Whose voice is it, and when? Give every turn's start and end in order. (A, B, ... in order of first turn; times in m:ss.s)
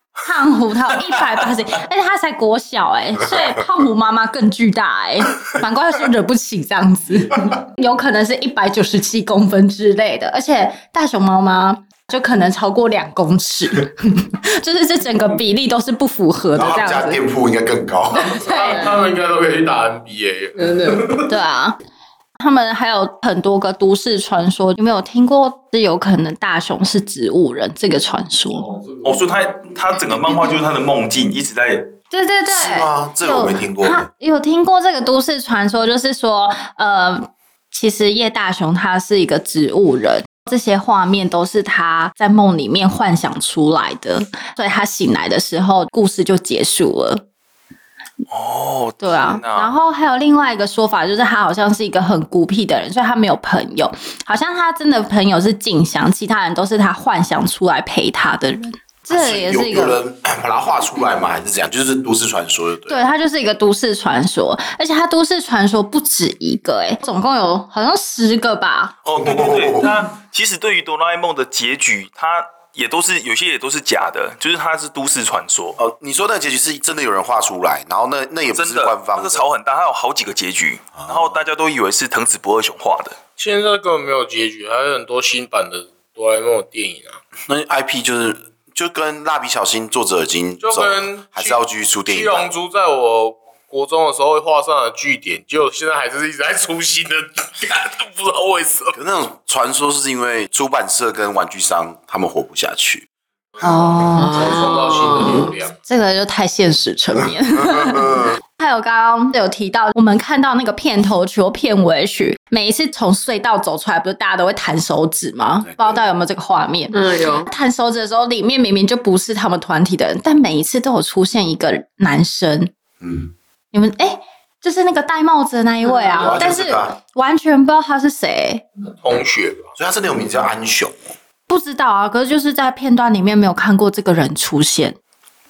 0:00.2-0:17.2 A
0:16.5-0:18.4 B
0:18.3-0:18.7 A
0:18.4-0:21.2 C
0:18.5-0:18.9 D
0:20.6-0:21.1 D
0:21.2-0:21.8 A
0:22.4-0:28.7 A
0:28.5-0:29.4 C
0:29.0-0:31.9 E
0:32.1-0:47.2 A
0:32.5-0:34.0 B
0:48.3-0:49.7 E
0:49.0-1:00.0 A
0:59.1-1:03.0 B
1:02.9-1:09.0 A
1:09.0-1:15.8 E
1:09.0-1:10.0 B
1:15.8-1:19.5 B
1:18.5-1:23.2 E
1:21.0-1:21.4 B
1:23.4-1:27.2 C
1:27.5-1:32.5 B
1:30.6-1:39.0 C
1:38.9-1:43.0 B
1:43.6-1:44.5 A
1:43.6-1:45.8 C
1:44.2-1:45.5 D
1:45.8-1:56.9 A
1:47.5-1:48.4 B
1:55.6-1:56.0 B
1:56.9-1:57.5 D
1:57.4-2:02.7 A
2:03.0-2:03.3 B
2:03.7-2:08.6 A
2:05.9-2:06.2 D
2:06.2-2:07.0 B
2:08.9-2:09.7 C
2:09.8-2:11.1 B
2:11.5-2:15.0 A